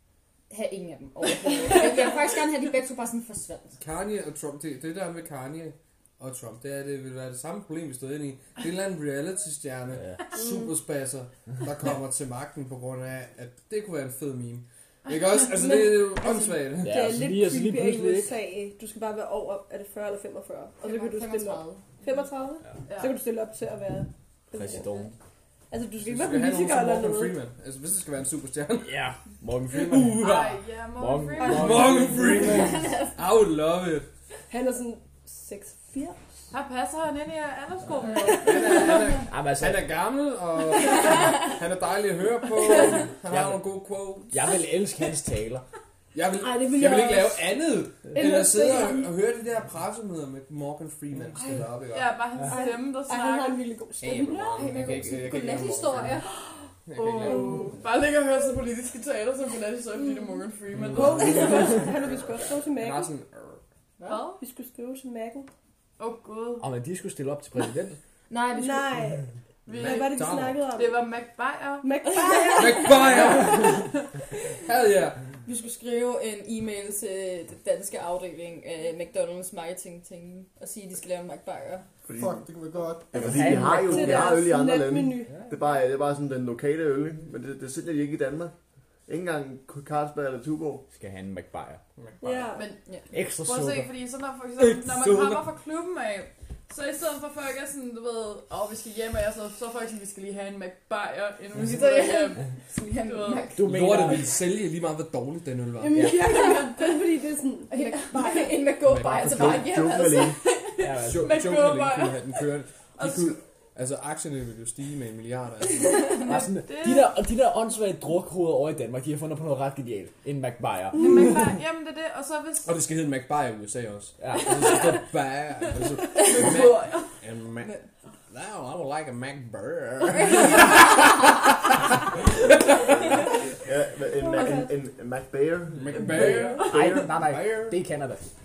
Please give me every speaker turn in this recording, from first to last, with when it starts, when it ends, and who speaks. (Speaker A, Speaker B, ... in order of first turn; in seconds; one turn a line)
Speaker A: 0.5-3.8
Speaker B: 3.8-17.0
Speaker C: 9.9-10.2
Speaker D: 10.4-10.7
Speaker D: 15.6-25.0
Speaker C: 16.8-18.3
Speaker A: 20.8-21.8
Speaker E: 22.9-23.2
Speaker C: 24.5-25.1
Speaker D: 25.7-27.4
Speaker B: 26.0-29.0
Speaker C: 28.8-30.4
Speaker B: 29.7-30.6
Speaker E: 30.2-31.9
Speaker C: 31.0-32.9
Speaker B: 31.4-34.1
Speaker D: 32.2-32.7
Speaker D: 34.5-36.5
Speaker E: 36.5-38.7
Speaker D: 38.0-38.9
Speaker B: 38.4-44.4
Speaker C: 39.3-39.9
Speaker C: 43.3-43.6
Speaker C: 44.3-45.6
Speaker B: 46.1-52.1
Speaker D: 46.4-47.6
Speaker D: 48.1-49.1
Speaker E: 51.9-53.7
Speaker D: 52.4-54.7
Speaker B: 54.0-56.2
Speaker A: 54.1-56.3
Speaker B: 56.9-57.7
Speaker E: 57.0-61.8
Speaker D: 57.2-57.8
Speaker B: 60.8-63.6
Speaker D: 60.9-63.1
Speaker E: 64.1-64.4
Speaker D: 64.4-65.5
Speaker E: 66.0-66.7
Speaker C: 66.6-68.0
Speaker A: 68.3-69.0
Speaker D: 68.5-71.1
Speaker E: 69.7-71.9
Speaker B: 69.7-70.6
Speaker D: 71.8-73.7
Speaker B: 72.5-73.8
Speaker E: 73.2-74.1
Speaker B: 74.7-75.2
Speaker A: 75.5-81.8
Speaker F: 82.1-82.4
Speaker B: 82.2-83.1
Speaker F: 83.1-88.5
Speaker C: 83.1-84.4
Speaker D: 83.7-85.4
Speaker F: 89.1-90.8
Speaker C: 90.9-91.8
Speaker B: 92.0-92.5
Speaker D: 92.2-92.7
Speaker E: 92.5-103.5
Speaker C: 93.1-93.9
Speaker B: 94.6-95.5
Speaker A: 101.6-103.6
Speaker C: 103.5-104.4
Speaker B: 103.6-106.2
Speaker D: 105.8-107.9
Speaker C: 105.9-106.2
Speaker A: 106.4-106.8
Speaker E: 106.4-106.9
Speaker A: 107.7-110.3
Speaker B: 108.8-109.7
Speaker F: 109.2-110.4
Speaker E: 110.0-112.5
Speaker C: 110.8-111.4
Speaker B: 111.1-116.0
Speaker E: 113.0-113.4
Speaker E: 116.0-117.1
Speaker C: 116.2-121.5
Speaker E: 120.9-122.7
Speaker B: 122.6-127.7
Speaker C: 124.2-125.0
Speaker E: 126.2-127.1
Speaker B: 128.3-131.4
Speaker F: 133.6-136.3
Speaker D: 134.2-134.7
Speaker B: 135.7-137.8
Speaker E: 135.9-137.0
Speaker C: 136.2-138.3